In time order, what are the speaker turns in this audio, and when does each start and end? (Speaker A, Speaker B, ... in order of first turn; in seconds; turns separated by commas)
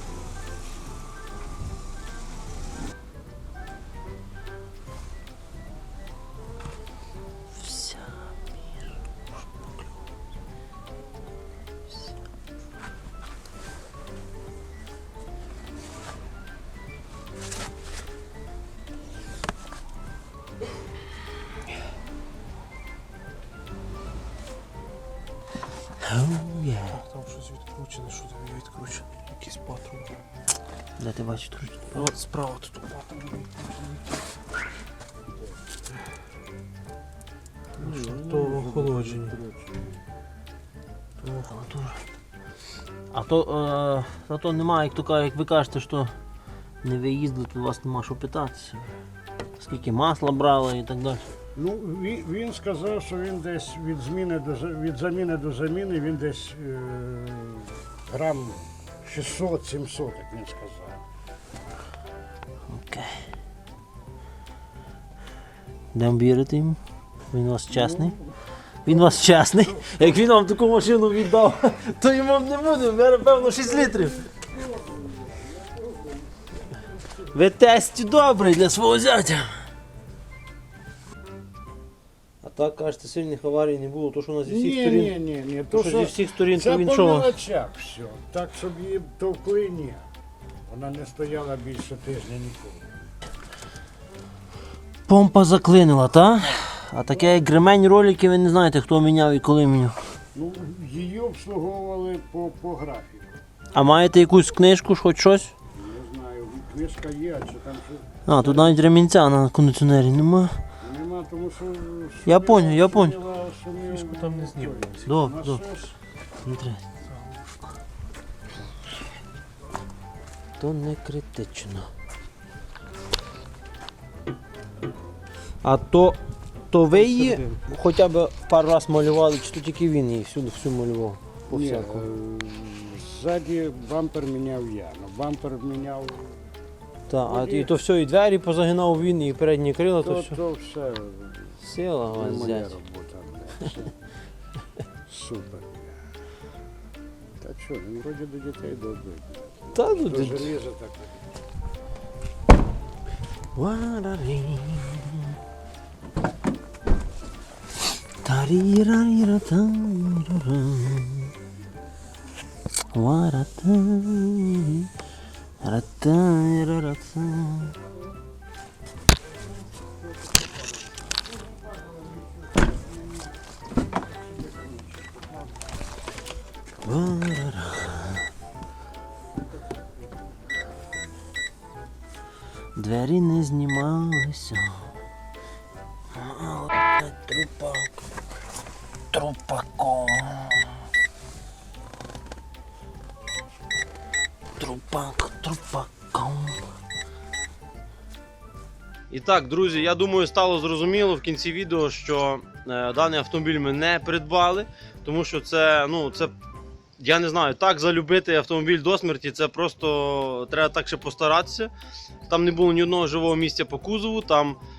Speaker A: 7.5-8.4, Speaker A: 26.0-27.0, Speaker B: 26.9-30.1, Speaker A: 31.0-32.6, Speaker B: 32.1-33.9, Speaker A: 37.8-39.4, Speaker C: 37.8-39.9, Speaker B: 38.3-39.1, Speaker A: 41.2-42.0, Speaker A: 43.1-46.1, Speaker A: 46.8-49.0, Speaker A: 49.6-51.2, Speaker C: 51.6-61.0, Speaker A: 62.7-63.3, Speaker A: 65.9-66.8, Speaker A: 67.3-68.2, Speaker C: 67.7-68.3, Speaker A: 68.8-74.3, Speaker C: 68.9-69.2, Speaker C: 74.9-76.1, Speaker A: 77.3-79.5, Speaker A: 82.4-85.1, Speaker C: 84.5-90.1, Speaker A: 85.7-87.3, Speaker C: 90.7-93.0, Speaker A: 95.1-100.0, Speaker C: 100.3-103.3, Speaker A: 103.7-105.5, Speaker C: 105.8-108.8, Speaker A: 108.3-110.6, Speaker C: 110.8-116.0, Speaker A: 112.2-113.2, Speaker B: 113.9-115.1, Speaker A: 115.0-115.6, Speaker A: 116.4-116.9, Speaker A: 120.6-121.9, Speaker A: 125.6-126.2, Speaker A: 126.7-132.1, Speaker B: 127.0-127.5, Speaker C: 131.5-136.5, Speaker A: 137.1-140.4, Speaker C: 137.2-137.7, Speaker C: 140.0-141.6, Speaker A: 141.6-142.8, Speaker C: 142.1-143.9, Speaker C: 145.1-146.0, Speaker C: 147.4-151.2, Speaker A: 149.7-150.5, Speaker A: 153.6-155.3, Speaker A: 158.2-161.3, Speaker A: 162.9-164.9, Speaker A: 165.6-167.8, Speaker C: 171.8-172.9, Speaker C: 174.1-175.4, Speaker A: 176.8-178.3, Speaker A: 182.8-184.9, Speaker A: 186.1-187.9, Speaker A: 189.1-190.8, Speaker A: 194.6-196.6, Speaker A: 199.1-206.3, Speaker A: 207.0-211.7, Speaker A: 212.3-214.6